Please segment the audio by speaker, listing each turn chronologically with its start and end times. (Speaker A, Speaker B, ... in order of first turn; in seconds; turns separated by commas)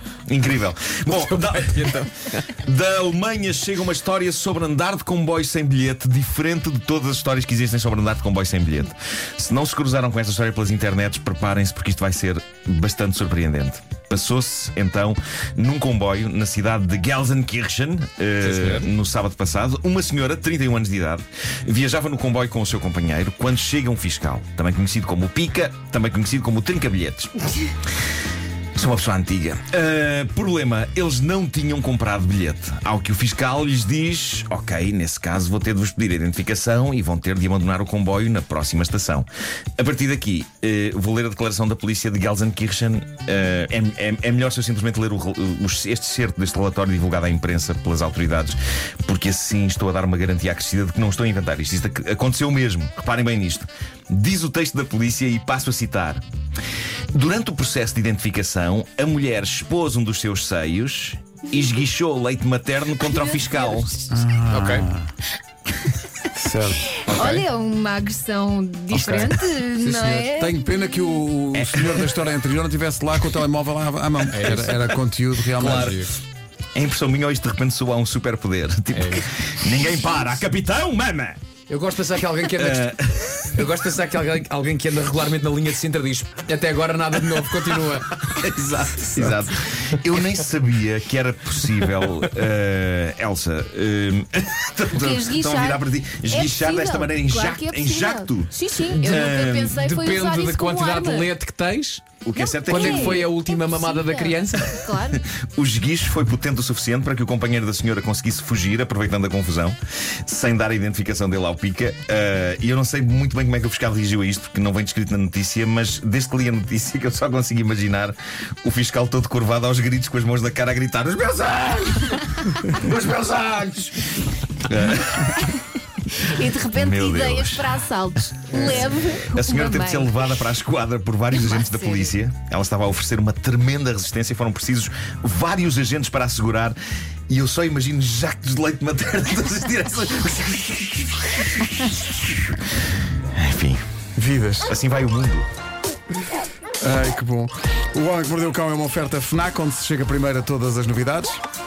Speaker A: 0.3-27.3, Speaker B: 1.1-2.4, Speaker B: 18.4-18.9, Speaker A: 28.7-56.2, Speaker A: 57.1-64.0, Speaker C: 63.0-64.1, Speaker D: 64.1-65.1, Speaker B: 64.5-64.9, Speaker D: 66.3-67.4, Speaker C: 67.0-70.6, Speaker D: 68.9-76.0, Speaker A: 71.5-72.2, Speaker B: 74.3-74.9, Speaker A: 75.5-76.1, Speaker B: 75.5-76.1, Speaker A: 76.7-81.4, Speaker B: 78.9-79.2, Speaker B: 81.7-83.0, Speaker A: 82.5-83.7, Speaker B: 83.5-88.5, Speaker A: 88.3-98.5, Speaker C: 95.0-101.3, Speaker B: 98.9-102.0, Speaker A: 99.0-99.8, Speaker A: 102.2-103.3, Speaker C: 102.3-105.2, Speaker B: 102.7-104.8, Speaker A: 104.9-125.5, Speaker C: 126.2-130.3, Speaker A: 126.7-127.8, Speaker A: 128.5-136.8, Speaker C: 131.4-132.1, Speaker A: 137.3-142.4, Speaker A: 143.3-143.8, Speaker D: 144.2-144.7, Speaker A: 144.7-145.5, Speaker D: 146.8-151.4